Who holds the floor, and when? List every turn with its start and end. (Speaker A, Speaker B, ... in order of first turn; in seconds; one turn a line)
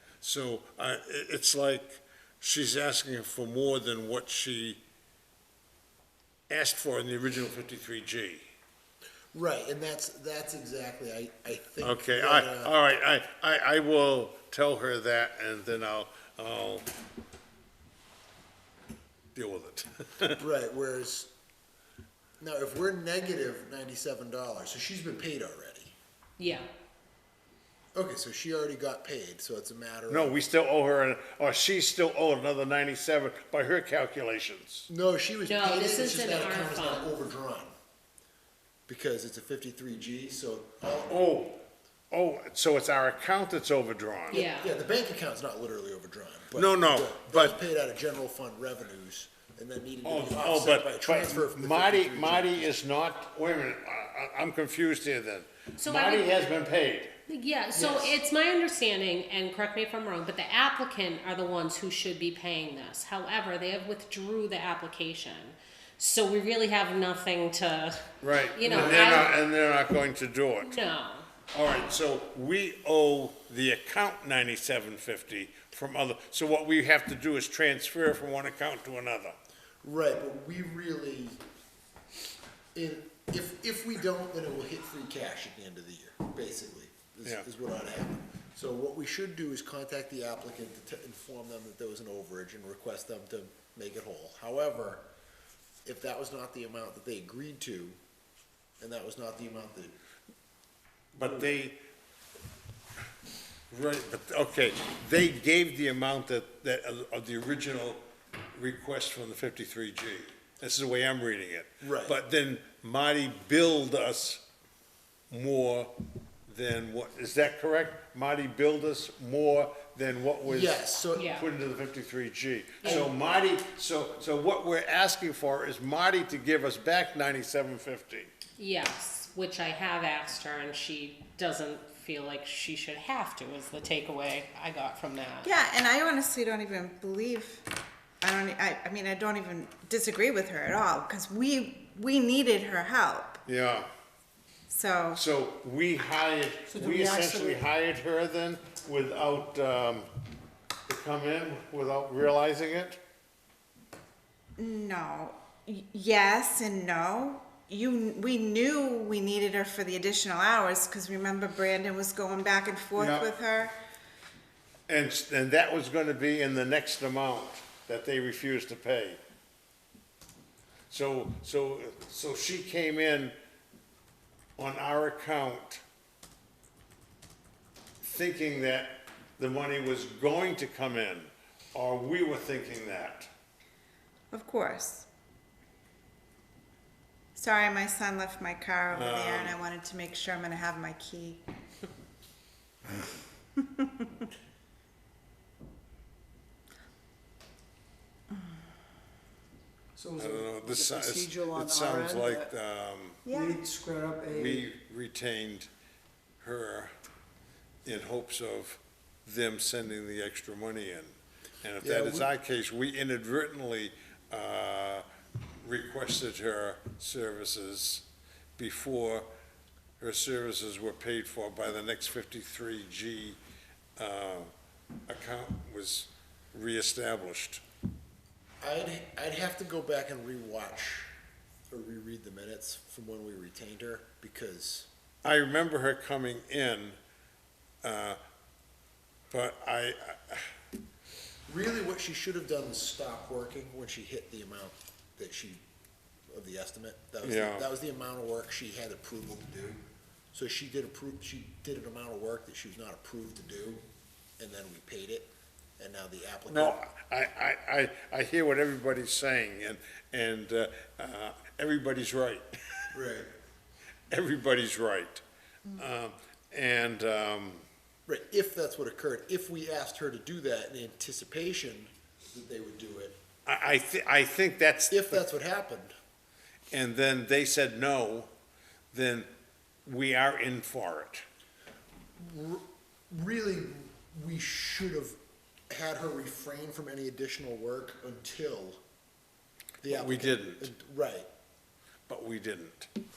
Speaker A: 0.2-4.8
Speaker A: 6.5-8.5
Speaker B: 9.3-12.7
Speaker A: 11.8-16.9
Speaker A: 19.3-20.4
Speaker B: 20.4-21.3
Speaker B: 22.4-25.9
Speaker C: 26.4-26.6
Speaker B: 27.9-30.4
Speaker A: 30.1-34.9
Speaker B: 34.9-37.7
Speaker C: 35.5-37.1
Speaker B: 38.9-41.2
Speaker A: 41.1-41.6
Speaker A: 42.1-44.4
Speaker C: 44.3-44.7
Speaker B: 44.3-52.7
Speaker A: 46.5-47.6
Speaker A: 50.0-57.1
Speaker C: 55.8-56.3
Speaker C: 57.3-69.3
Speaker B: 57.7-58.1
Speaker A: 68.2-70.8
Speaker C: 70.6-71.3
Speaker A: 71.5-79.3
Speaker B: 79.8-81.4
Speaker B: 82.7-95.0
Speaker B: 95.8-98.0
Speaker B: 98.8-99.9
Speaker A: 101.1-101.8
Speaker A: 103.7-108.0
Speaker A: 108.5-114.4
Speaker B: 111.8-112.2
Speaker A: 115.3-115.9
Speaker A: 116.5-120.8
Speaker B: 120.4-121.4
Speaker C: 121.1-121.5
Speaker A: 121.3-128.3
Speaker C: 122.8-123.1
Speaker C: 128.6-135.5
Speaker D: 135.4-137.6
Speaker D: 138.2-143.4
Speaker A: 143.5-143.9
Speaker D: 144.7-145.2
Speaker A: 145.1-150.1
Speaker E: 146.7-147.6
Speaker A: 150.9-153.0
Speaker D: 154.6-163.7
Speaker A: 162.9-163.3
Speaker A: 164.9-169.2
Speaker A: 170.9-173.3
Speaker A: 174.6-175.8
Speaker A: 178.0-183.3
Speaker D: 184.3-185.1
Speaker D: 187.3-191.4
Speaker A: 188.9-189.6
Speaker D: 193.6-193.9
Speaker E: 199.9-202.5
Speaker A: 200.2-203.2
Speaker D: 203.2-203.6
Speaker E: 203.3-204.7
Speaker A: 204.3-205.7
Speaker A: 206.4-206.9
Speaker A: 207.8-215.0
Speaker B: 211.8-212.3
Speaker A: 215.6-218.0
Speaker A: 218.6-219.3
Speaker A: 220.0-223.4
Speaker A: 224.0-224.5
Speaker A: 225.1-227.6
Speaker B: 228.6-231.1
Speaker B: 231.7-234.9
Speaker A: 235.2-237.0
Speaker A: 237.8-238.2
Speaker A: 239.3-240.5
Speaker B: 241.5-245.6
Speaker B: 246.3-249.8
Speaker A: 247.2-247.7
Speaker B: 250.3-253.8
Speaker B: 254.4-256.8
Speaker A: 256.5-262.9
Speaker B: 262.9-263.3
Speaker A: 264.1-265.2
Speaker A: 265.7-267.6
Speaker B: 268.1-273.2
Speaker A: 273.4-275.2
Speaker B: 274.9-275.9
Speaker A: 276.7-278.3
Speaker A: 278.9-279.3
Speaker A: 279.8-281.2
Speaker B: 282.2-285.2
Speaker B: 285.7-288.8
Speaker B: 289.8-291.3
Speaker A: 289.9-290.7
Speaker A: 292.1-292.9